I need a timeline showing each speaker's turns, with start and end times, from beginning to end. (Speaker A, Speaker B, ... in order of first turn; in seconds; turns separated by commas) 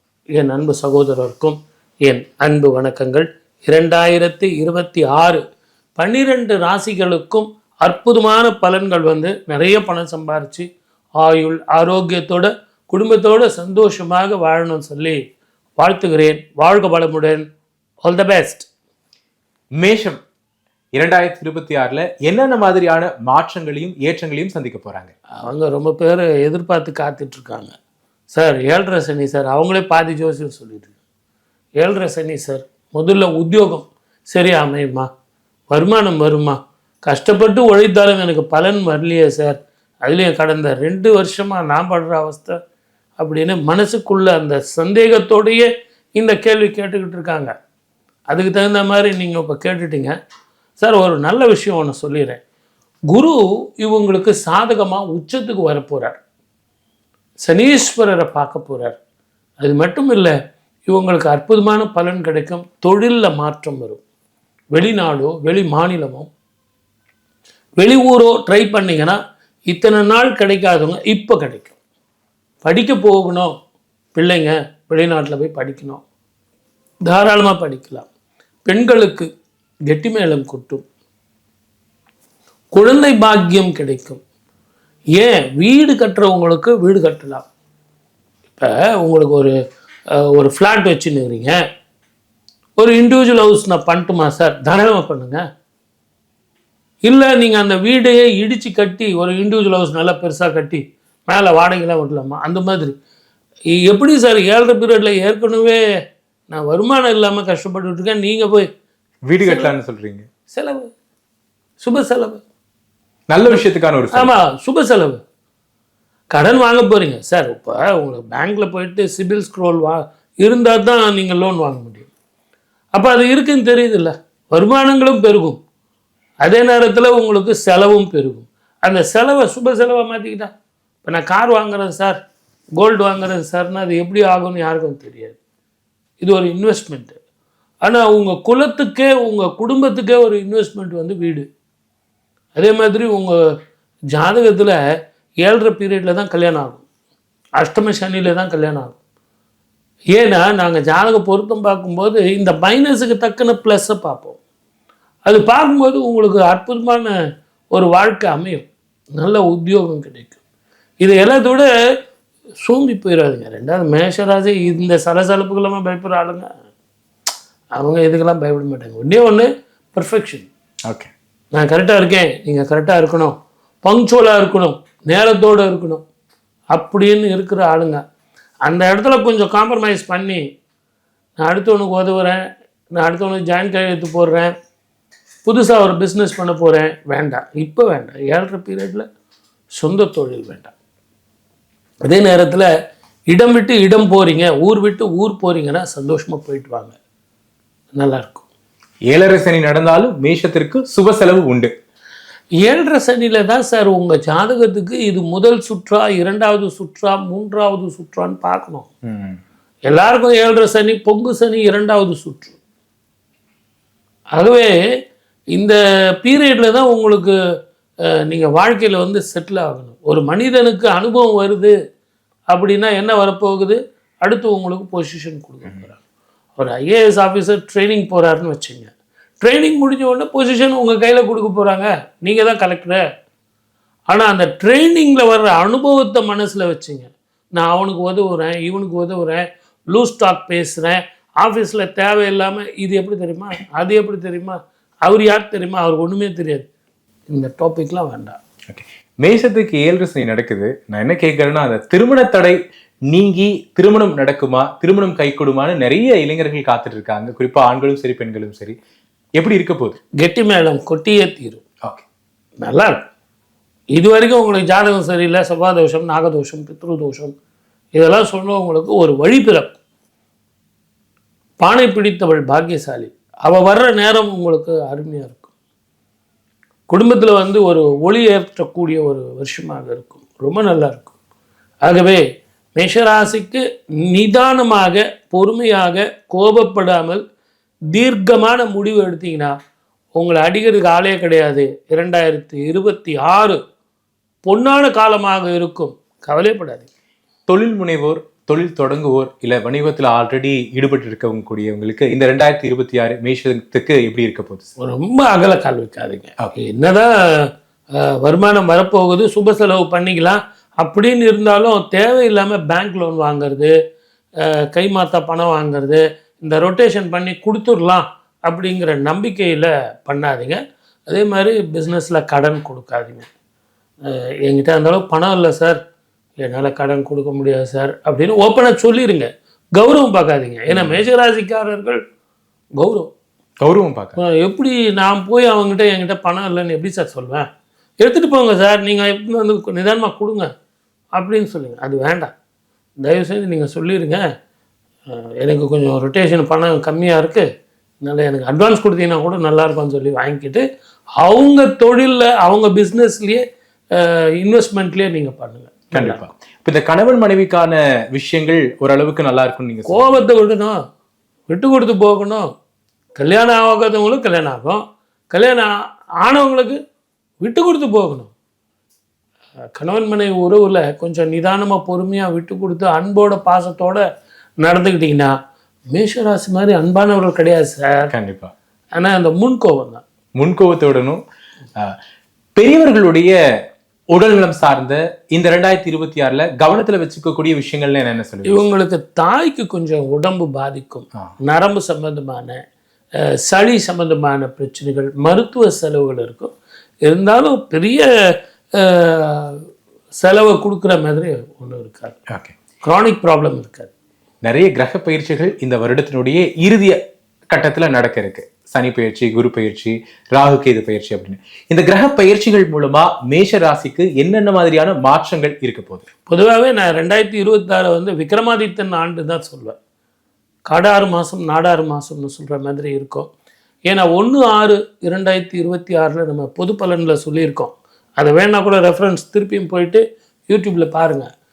Speaker A: 0.4-5.4, Speaker A: 6.0-10.7, Speaker A: 11.2-15.2, Speaker A: 15.8-17.4, Speaker A: 18.0-18.7, Speaker B: 19.8-20.2, Speaker B: 20.9-25.1, Speaker A: 25.4-27.8, Speaker A: 28.3-30.9, Speaker A: 31.8-35.1, Speaker A: 35.7-42.6, Speaker A: 43.2-47.5, Speaker A: 48.3-50.1, Speaker A: 50.8-52.4, Speaker A: 53.1-56.2, Speaker A: 57.4-59.0, Speaker A: 59.6-60.3, Speaker A: 60.9-64.0, Speaker A: 64.7-66.3, Speaker A: 67.8-69.2, Speaker A: 69.7-71.8, Speaker A: 72.6-73.5, Speaker A: 74.2-76.0, Speaker A: 77.1-78.1, Speaker A: 78.7-79.3, Speaker A: 79.9-80.8, Speaker A: 82.7-84.2, Speaker A: 85.2-87.5, Speaker A: 88.6-89.5, Speaker A: 90.2-91.6, Speaker A: 92.8-95.4, Speaker A: 97.0-103.0, Speaker A: 103.7-105.8, Speaker A: 106.5-108.7, Speaker B: 109.3-110.3, Speaker A: 109.4-109.7, Speaker A: 110.5-110.9, Speaker A: 111.8-112.4, Speaker B: 113.3-114.4, Speaker A: 114.1-115.2, Speaker A: 116.3-122.1, Speaker A: 123.0-125.6, Speaker A: 126.4-130.5, Speaker A: 131.0-132.2, Speaker A: 132.8-135.4, Speaker A: 136.2-137.2, Speaker A: 137.8-141.5, Speaker A: 142.6-143.4, Speaker A: 144.1-144.8, Speaker A: 145.4-146.8, Speaker A: 147.6-149.0, Speaker A: 150.1-154.4, Speaker A: 155.3-157.1, Speaker A: 157.7-158.7, Speaker A: 159.2-160.4, Speaker A: 161.0-161.7, Speaker A: 162.6-166.5, Speaker A: 167.8-170.5, Speaker A: 171.5-176.0, Speaker A: 176.7-178.0, Speaker A: 178.7-180.4, Speaker A: 181.4-182.4, Speaker A: 182.9-184.5, Speaker A: 185.4-189.1, Speaker A: 189.8-190.7, Speaker A: 192.1-192.7, Speaker A: 193.3-197.0, Speaker A: 198.0-198.4, Speaker B: 199.1-201.7, Speaker A: 202.6-208.9, Speaker B: 209.1-209.4, Speaker A: 209.9-212.6, Speaker A: 214.3-214.7, Speaker A: 215.5-217.3, Speaker A: 218.3-221.7, Speaker A: 222.5-226.0, Speaker A: 226.6-233.0, Speaker A: 234.1-246.7, Speaker A: 247.3-248.4, Speaker B: 248.7-252.6, Speaker B: 253.1-258.8, Speaker B: 259.4-260.0, Speaker A: 260.2-261.6, Speaker A: 262.6-263.0, Speaker A: 264.0-267.3, Speaker A: 268.0-269.8, Speaker A: 271.6-275.5, Speaker A: 276.9-281.1, Speaker A: 281.8-282.2, Speaker A: 282.8-287.2, Speaker A: 287.9-289.5, Speaker A: 290.2-293.6, Speaker A: 294.4-296.9, Speaker B: 297.5-304.7, Speaker A: 304.8-307.5, Speaker A: 308.0-313.7, Speaker A: 314.4-323.3, Speaker A: 324.1-325.8, Speaker A: 326.4-332.0, Speaker B: 330.7-331.0, Speaker A: 332.8-333.1, Speaker B: 333.6-334.2, Speaker A: 334.2-337.5, Speaker A: 338.0-340.5, Speaker A: 341.1-342.3, Speaker A: 343.0-344.2, Speaker A: 345.1-347.5, Speaker A: 348.0-350.6, Speaker A: 351.2-353.4, Speaker A: 353.9-356.2, Speaker B: 355.9-360.2, Speaker A: 359.9-360.8, Speaker A: 361.5-362.5, Speaker A: 363.2-366.8, Speaker A: 367.4-368.3, Speaker A: 369.7-374.1, Speaker A: 374.6-375.3, Speaker A: 375.9-378.1, Speaker B: 378.1-378.5, Speaker A: 378.9-380.0, Speaker B: 380.4-381.2, Speaker B: 382.6-383.3, Speaker B: 384.1-388.7, Speaker A: 388.5-392.6, Speaker A: 393.4-396.5, Speaker A: 397.1-398.1, Speaker A: 398.8-399.6, Speaker A: 400.2-402.2, Speaker B: 402.3-402.6, Speaker A: 402.8-403.9, Speaker B: 404.4-407.0, Speaker B: 407.5-416.1, Speaker A: 416.3-419.8, Speaker A: 420.7-423.3, Speaker A: 423.9-431.3